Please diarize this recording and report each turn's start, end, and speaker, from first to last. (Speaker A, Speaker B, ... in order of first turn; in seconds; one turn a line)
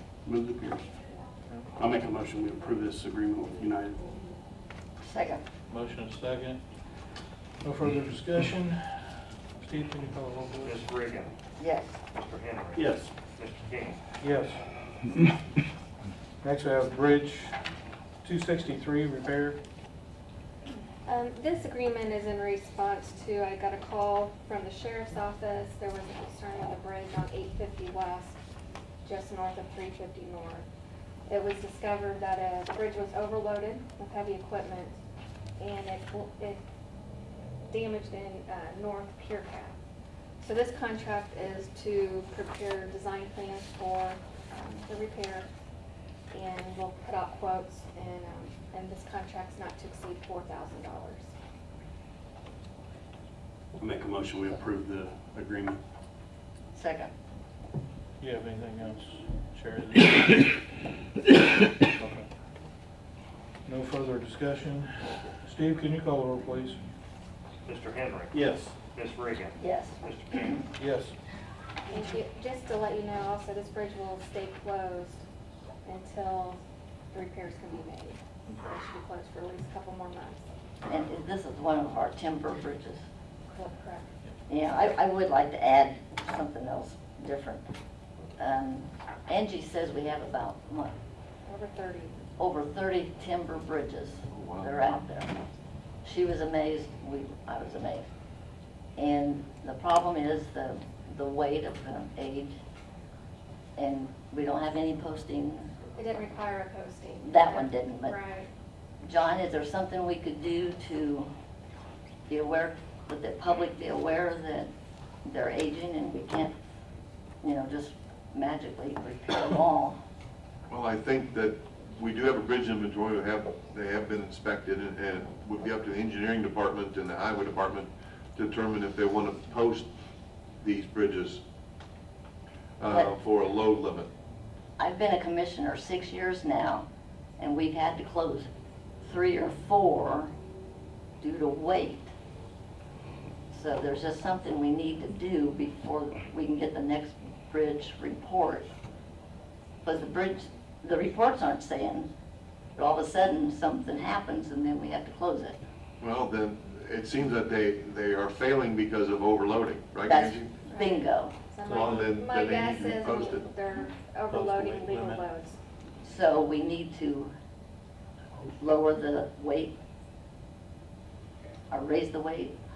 Speaker A: 0.2-0.9
Speaker A: 1.8-4.0
Speaker B: 5.0-5.4
Speaker C: 5.7-6.6
Speaker C: 7.6-10.8
Speaker D: 10.6-11.3
Speaker B: 11.6-12.0
Speaker D: 12.1-14.0
Speaker A: 12.8-13.1
Speaker C: 14.2-14.6
Speaker C: 16.4-17.6
Speaker C: 18.2-19.6
Speaker E: 21.1-28.4
Speaker E: 29.0-30.7
Speaker E: 31.3-35.0
Speaker E: 35.6-36.6
Speaker E: 37.7-39.8
Speaker E: 40.4-45.5
Speaker E: 46.3-51.3
Speaker A: 53.8-55.8
Speaker B: 56.7-57.1
Speaker C: 58.2-60.6
Speaker C: 62.0-62.3
Speaker C: 63.7-66.8
Speaker D: 67.7-68.3
Speaker A: 68.4-68.7
Speaker D: 68.9-70.5
Speaker B: 69.6-70.6
Speaker C: 70.8-71.1
Speaker E: 71.9-75.2
Speaker E: 75.8-76.6
Speaker E: 77.1-80.5
Speaker B: 80.9-83.0
Speaker E: 83.5-84.1
Speaker B: 84.5-87.6
Speaker B: 88.4-90.9
Speaker E: 91.5-92.3
Speaker B: 92.4-95.3
Speaker F: 94.3-94.7
Speaker B: 96.0-98.1
Speaker B: 99.0-102.6
Speaker B: 103.8-105.7
Speaker E: 106.0-108.5
Speaker B: 107.2-108.2
Speaker B: 109.0-111.3
Speaker B: 112.3-114.7
Speaker B: 115.2-116.5
Speaker B: 117.4-120.0
Speaker F: 120.7-129.9
Speaker F: 130.6-131.4
Speaker F: 132.8-134.1
Speaker B: 134.8-136.8
Speaker B: 137.4-138.5
Speaker B: 139.0-140.3
Speaker B: 141.2-142.1
Speaker B: 143.5-148.7
Speaker B: 149.8-152.1
Speaker B: 152.8-155.6
Speaker F: 156.0-160.5
Speaker B: 160.1-161.3
Speaker E: 160.7-165.6
Speaker C: 161.6-162.2
Speaker F: 161.7-163.5
Speaker C: 164.3-165.2
Speaker B: 166.0-167.3
Speaker B: 168.6-169.7
Speaker B: 171.7-172.5